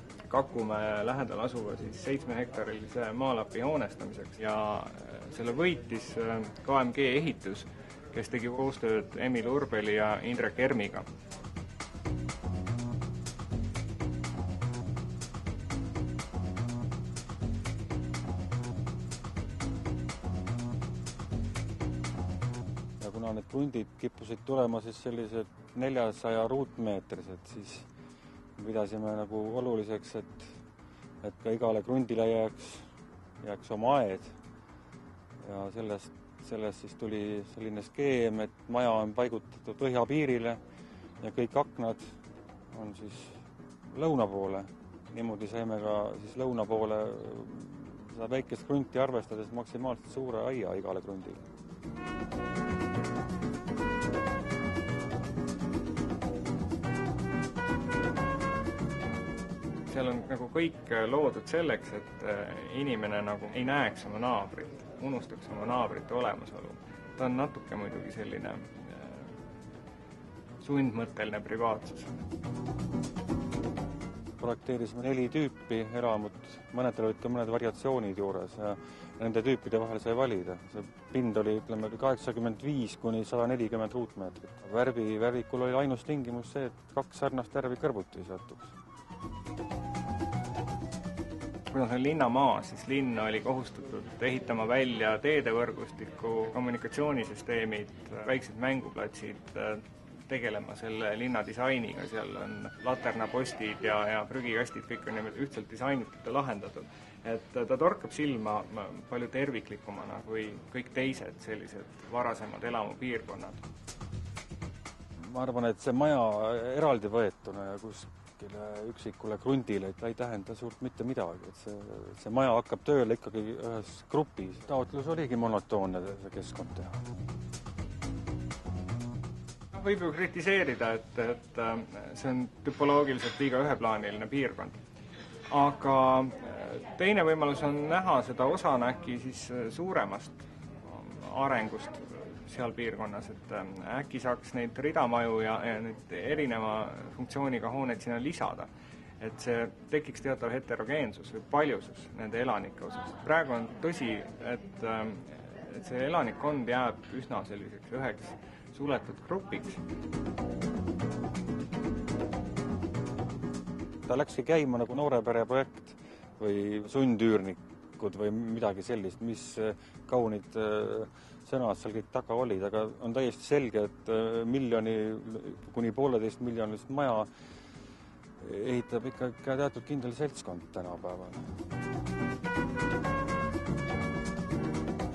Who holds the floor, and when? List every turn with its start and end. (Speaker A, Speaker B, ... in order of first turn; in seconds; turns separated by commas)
Speaker A: 0.3-11.1, Speaker B: 23.0-27.9, Speaker B: 28.6-30.6, Speaker B: 31.2-32.9, Speaker B: 33.4-34.3, Speaker B: 35.4-40.6, Speaker B: 41.2-42.1, Speaker B: 42.7-51.4, Speaker A: 59.9-69.3, Speaker A: 70.6-72.1, Speaker B: 74.4-88.7, Speaker A: 91.7-113.6, Speaker B: 115.2-127.0, Speaker A: 129.7-134.8, Speaker A: 135.5-148.7, Speaker A: 149.2-159.8, Speaker B: 164.1-177.3, Speaker B: 178.4-181.4